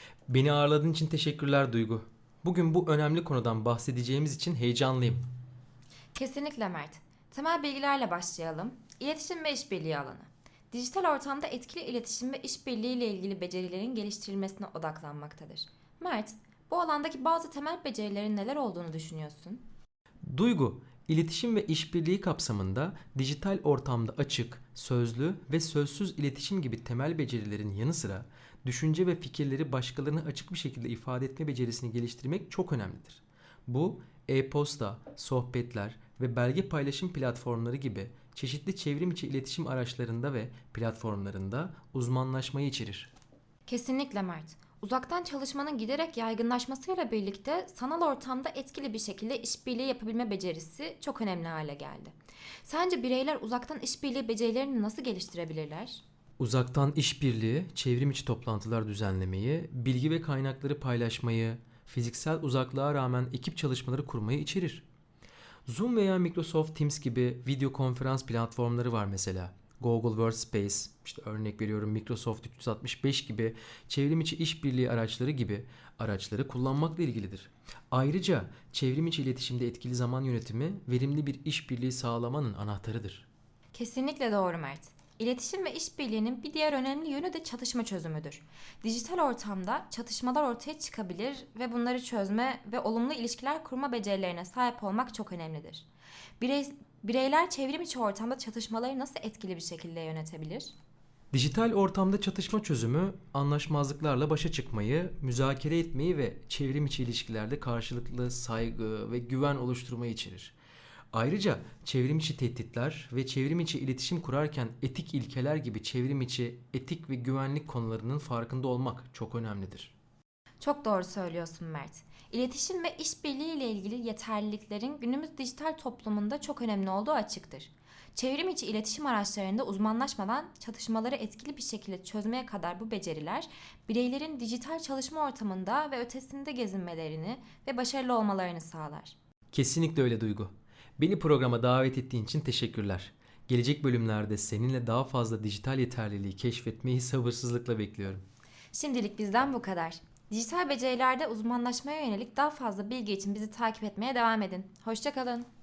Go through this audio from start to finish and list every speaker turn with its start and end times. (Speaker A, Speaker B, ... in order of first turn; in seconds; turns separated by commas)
Speaker A: 0.3-5.2, Speaker B: 6.1-19.6, Speaker A: 20.2-43.1, Speaker B: 43.7-56.0, Speaker A: 56.4-64.8, Speaker A: 65.7-83.2, Speaker B: 83.7-95.8, Speaker B: 96.4-100.7, Speaker A: 101.3-110.5, Speaker A: 111.1-119.9, Speaker B: 120.6-139.1, Speaker A: 139.5-148.2, Speaker B: 148.7-155.5